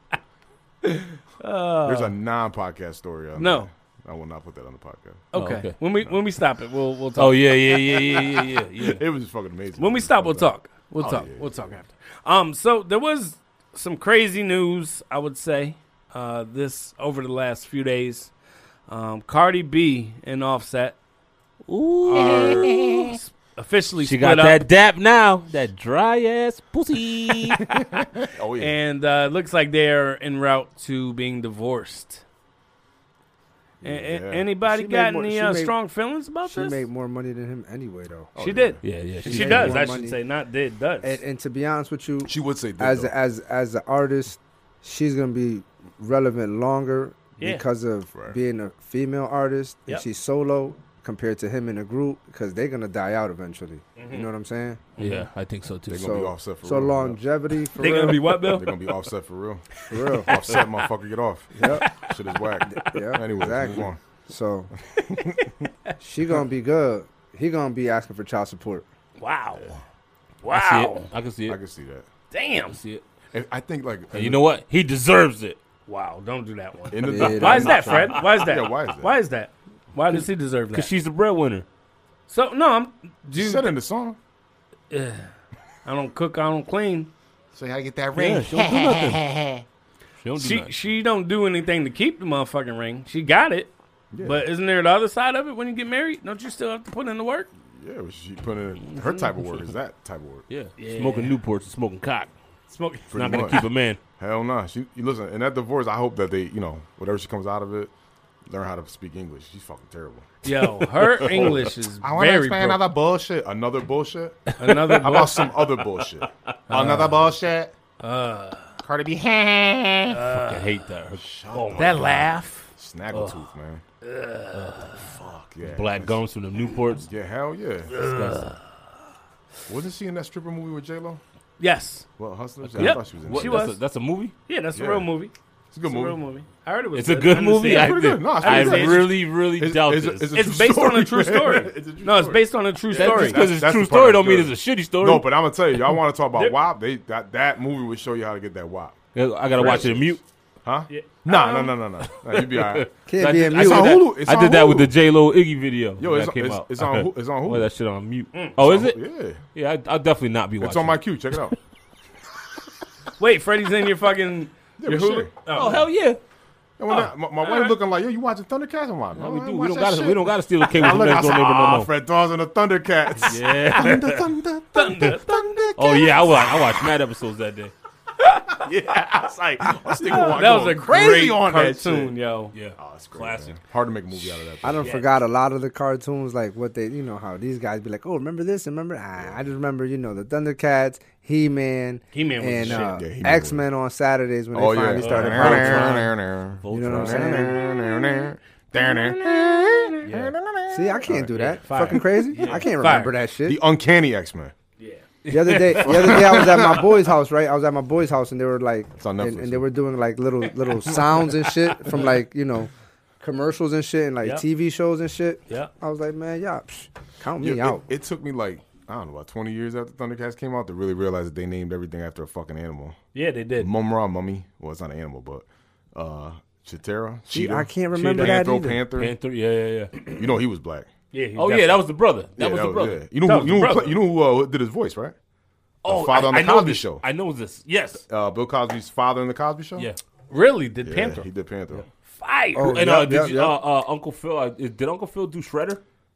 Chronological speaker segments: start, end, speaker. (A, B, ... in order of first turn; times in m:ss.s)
0:00.8-0:02.1 A
0:01.8-0:05.2 B
0:03.4-0:03.7 A
0:05.3-0:08.4 A
0:05.4-0:05.8 C
0:07.2-0:09.0 C
0:08.8-0:11.7 B
0:09.8-0:18.3 A
0:18.9-0:21.0 A
0:21.7-0:23.1 C
0:22.0-0:24.6 A
0:24.0-0:27.8 C
0:28.2-0:28.7 B
0:28.6-0:32.2 A
0:33.8-0:36.9 A
0:33.9-0:34.5 B
0:34.6-0:35.8 D
0:36.5-0:38.3 D
0:38.4-0:38.8 B
0:38.4-0:41.2 A
0:38.8-0:39.8 C
0:39.2-0:40.2 D
0:41.0-0:54.8 D
0:42.3-0:43.1 B
0:47.4-0:47.6 A
0:54.0-0:54.3 A
0:55.0-0:56.2 C
0:55.9-0:57.2 B
0:55.9-0:58.4 D
0:57.8-0:58.8 A
0:58.1-1:04.0 B
0:59.9-1:00.3 D
1:00.3-1:00.6 C
1:01.6-1:01.9 D
1:02.7-1:04.7 D
1:05.0-1:05.5 B
1:06.0-1:08.9 D
1:09.2-1:09.8 A
1:10.4-1:11.1 A
1:10.5-1:11.6 C
1:11.5-1:12.1 B
1:12.3-1:12.8 A
1:12.7-1:13.0 C
1:13.3-1:14.4 B
1:14.1-1:15.6 C
1:15.9-1:20.9 A
1:16.9-1:19.1 B
1:17.0-1:17.8 D
1:17.4-1:18.4 C
1:20.7-1:21.7 C
1:22.3-1:23.7 A
1:23.4-1:24.2 B
1:24.9-1:25.3 A
1:25.8-1:27.1 A
1:27.5-1:29.6 B
1:28.1-1:29.4 C
1:30.2-1:30.7 C
1:30.4-1:37.5 A
1:34.1-1:34.4 B
1:37.8-1:40.5 B
1:40.5-1:42.3 C
1:40.8-1:41.4 A
1:42.7-1:43.5 A
1:43.1-1:43.7 B
1:43.1-1:44.0 C
1:44.2-1:47.9 B
1:48.5-1:50.3 B
1:50.4-1:52.8 A
1:50.7-1:51.6 C
1:51.2-1:57.7 B
1:54.5-1:55.3 C
1:54.6-1:55.6 A
1:56.7-1:57.3 A
1:58.0-1:58.8 A
1:58.8-2:00.2 B
2:00.1-2:00.6 A
2:00.2-2:02.1 C
2:01.2-2:03.8 B
2:01.7-2:02.7 A
2:03.1-2:03.4 C
2:04.0-2:05.1 A
2:04.5-2:07.1 C
2:05.2-2:06.2 B
2:07.0-2:08.0 B
2:07.9-2:08.6 A
2:08.0-2:08.6 C
2:09.7-2:11.2 B
2:11.6-2:12.1 A
2:12.2-2:13.7 B
2:12.6-2:14.3 C
2:12.8-2:13.8 A
2:14.5-2:19.1 A
2:14.8-2:15.1 B
2:15.7-2:16.2 B
2:17.0-2:20.3 C
2:17.7-2:29.0 B
2:20.3-2:23.4 A
2:22.9-2:26.0 C
2:29.1-2:30.2 C
2:29.5-2:32.9 B
2:30.9-2:31.8 A
2:32.2-2:39.0 C
2:33.1-2:34.0 D
2:33.5-2:34.9 B
2:36.0-2:37.7 B
2:38.6-2:39.4 B
2:39.5-2:41.0 C
2:40.6-2:41.6 B
2:43.2-2:45.9 A
2:44.8-2:45.3 B
2:45.5-2:46.2 C
2:46.8-2:56.6 B
2:47.5-2:47.7 A
2:49.2-2:51.9 C
2:53.2-2:54.3 C
2:54.7-2:55.7 A
2:55.8-2:57.7 C
2:58.2-2:58.6 A
2:58.6-3:02.1 B
3:00.1-3:02.5 A
3:02.5-3:03.6 C
3:02.8-3:04.9 B
3:04.6-3:16.1 D
3:04.8-3:05.1 A
3:12.1-3:13.0 A
3:12.6-3:13.6 B
3:14.5-3:22.0 B
3:15.0-3:17.5 C
3:16.7-3:17.6 D
3:17.7-3:18.2 A
3:18.8-3:20.3 A
3:20.7-3:23.6 D
3:21.5-3:23.2 A
3:22.4-3:22.6 C
3:23.4-3:24.5 B
3:24.8-3:25.0 A
3:25.2-3:26.6 C
3:25.3-3:37.8 D
3:25.8-3:26.9 B
3:29.0-3:29.7 B
3:37.4-3:43.0 B
3:43.1-3:43.7 A
3:43.6-3:49.1 B
3:47.3-3:48.8 D
3:48.0-3:48.3 A
3:49.0-3:50.0 C
3:50.0-3:50.9 B
3:51.1-3:51.8 A
3:51.4-3:53.0 C
3:52.4-3:55.2 B
3:53.2-3:54.0 A
3:55.8-3:58.0 C
3:55.9-3:57.0 B
3:58.1-3:59.9 B
4:00.3-4:01.3 A
4:00.8-4:01.8 B
4:02.1-4:02.8 A
4:02.6-4:03.6 D
4:02.6-4:05.8 C